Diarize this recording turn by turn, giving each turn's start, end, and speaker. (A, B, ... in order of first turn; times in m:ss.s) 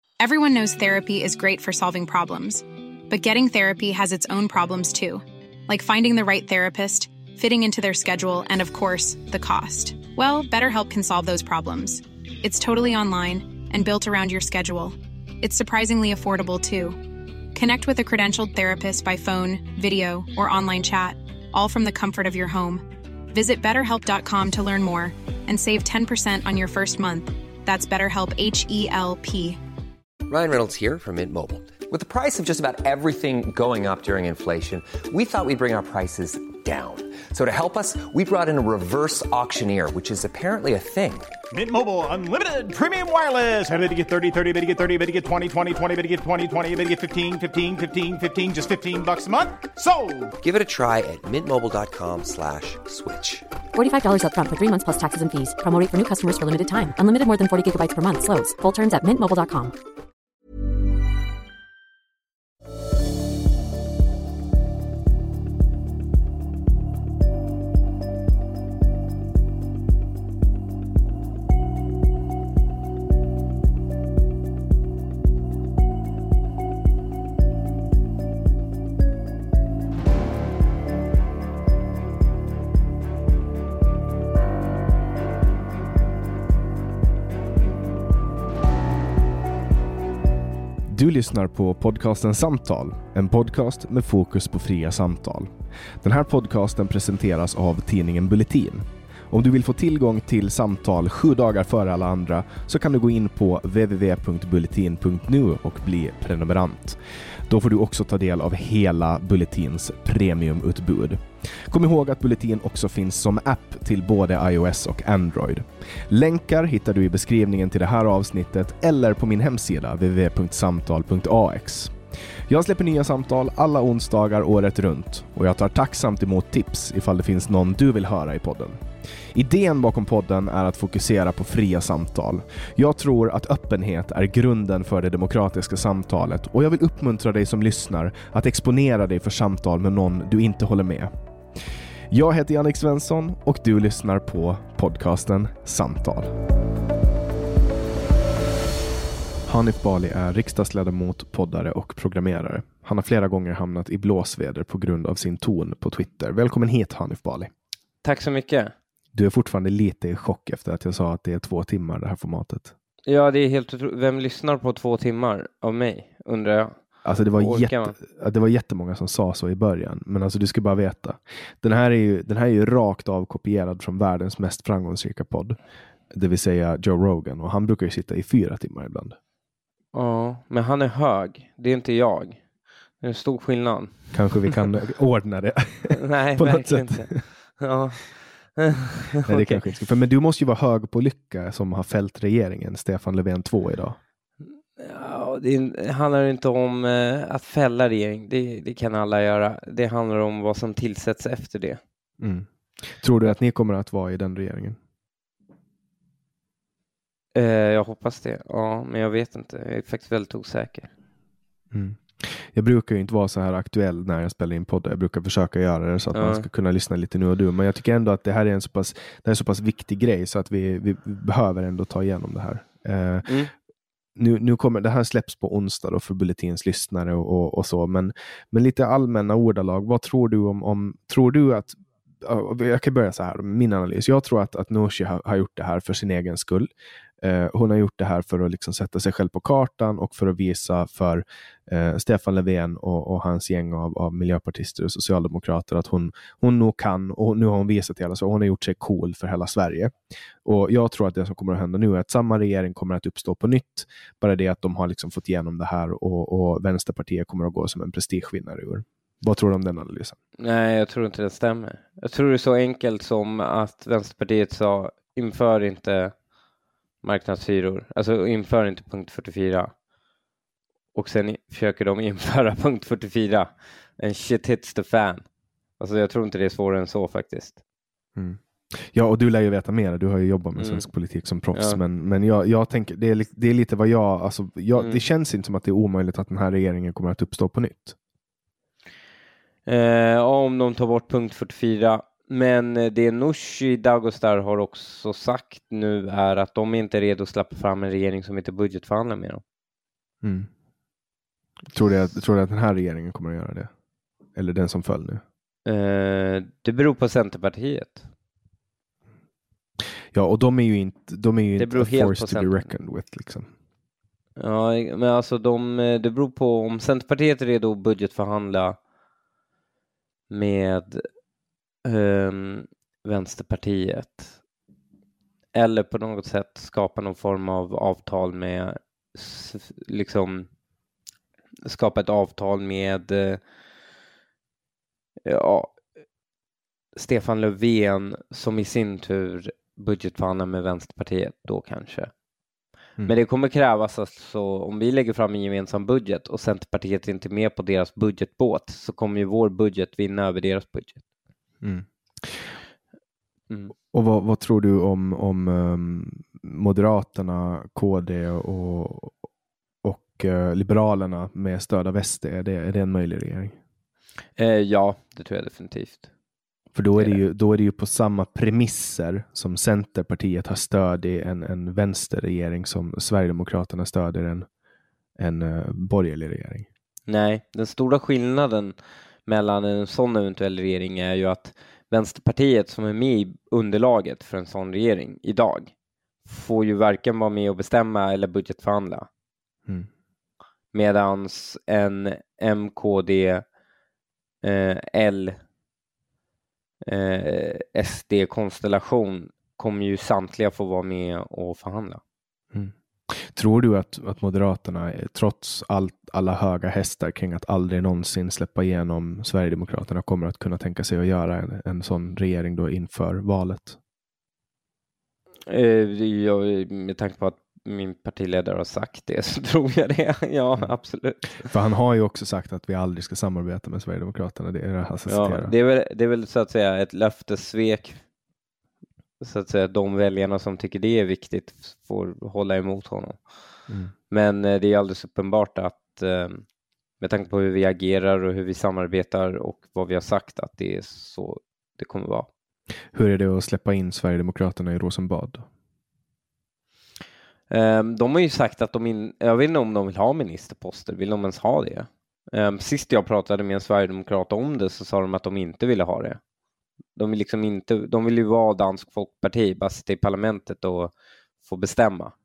0:00.2-0:29.6 A
0:30.3-0:41.4 B
0:41.5-0:50.3 C
0:50.4-0:53.4 B
0:53.7-0:59.8 D
1:30.8-2:02.0 E
2:02.5-2:21.1 E
2:22.1-2:26.3 E
2:29.4-2:37.5 E
2:38.0-2:38.7 F
2:39.1-2:42.7 E
2:43.1-2:46.7 F
2:47.0-2:55.6 E
2:47.4-2:47.9 F
2:56.1-2:59.2 E
2:59.9-3:02.4 F
3:03.0-3:04.5 F
3:04.1-3:07.2 E
3:05.9-3:09.6 F
3:09.2-3:14.0 E
3:14.8-3:21.8 F
3:22.2-3:24.8 E
3:27.3-3:30.9 F
3:31.7-3:43.4 E
3:36.1-3:36.4 F
3:43.2-3:43.5 F
3:44.2-4:20.2 E
4:20.4-4:26.1 F
4:27.0-4:29.7 F
4:30.9-4:35.2 F
4:35.8-4:37.6 F
4:38.2-4:48.0 E
4:40.6-4:40.8 F
4:41.5-4:41.8 F
4:44.7-4:45.0 F
4:49.7-4:59.4 F
5:00.2-5:00.5 E
5:01.7-5:03.7 E
5:04.3-5:05.2 E
5:05.6-5:08.1 F
5:10.1-5:13.5 E
5:11.6-5:12.6 F
5:14.4-5:18.8 F
5:20.3-5:21.0 F
5:21.8-5:24.3 F
5:25.5-5:30.5 F
5:31.6-5:33.4 F
5:35.2-5:35.8 F
5:36.9-5:42.1 F
5:43.0-5:51.0 F
5:51.6-5:52.5 E
5:53.9-5:59.1 E
5:59.8-6:03.6 E
6:04.4-6:06.1 F
6:06.7-6:14.5 E
6:07.0-6:07.2 F
6:15.2-6:16.7 E
6:17.1-6:18.7 F
6:19.2-6:25.7 F
6:26.2-6:29.1 F
6:30.7-6:33.4 F
6:34.4-6:35.4 F
6:36.8-6:42.0 F
6:42.5-6:53.8 E
6:55.5-7:01.5 F
7:01.4-7:05.5 E
7:05.1-7:08.0 F
7:09.2-7:13.2 F
7:14.1-7:16.4 F
7:17.0-7:22.3 F
7:22.9-7:25.4 E
7:27.5-7:36.2 F
7:37.0-7:40.9 F
7:41.4-7:42.1 F